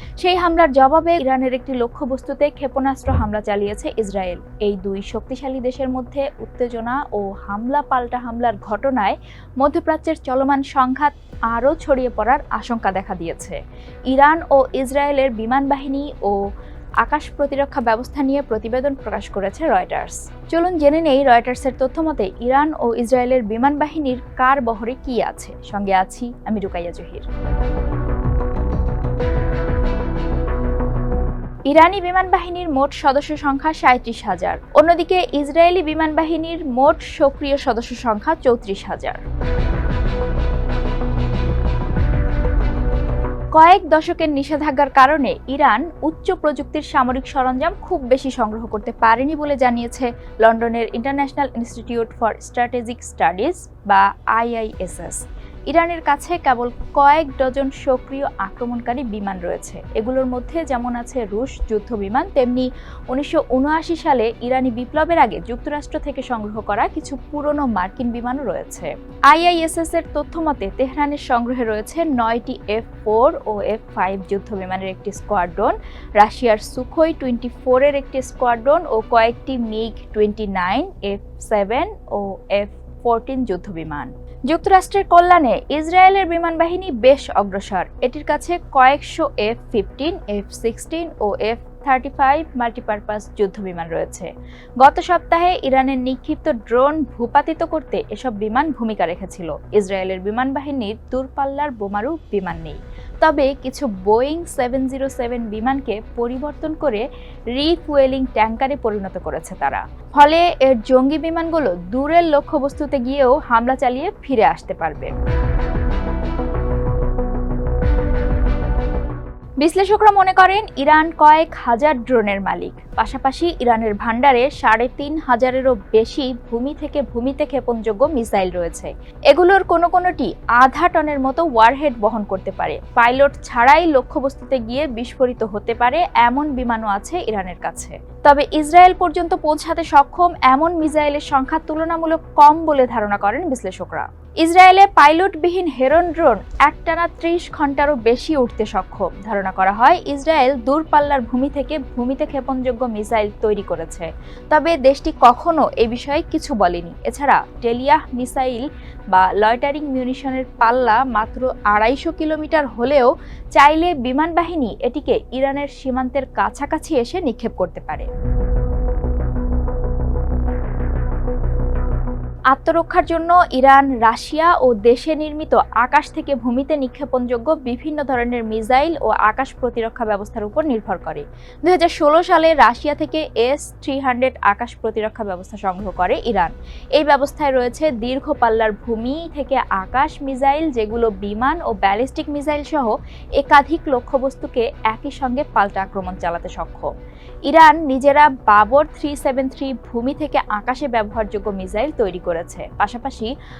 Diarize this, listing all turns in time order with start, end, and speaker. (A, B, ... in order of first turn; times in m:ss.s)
0:00.2-0:13.6 A
0:14.1-0:16.4 A
0:17.0-0:27.2 A
0:31.7-0:39.2 A
0:43.5-1:55.1 A
1:59.6-2:48.1 A
2:52.5-3:16.9 A
3:17.5-3:23.3 A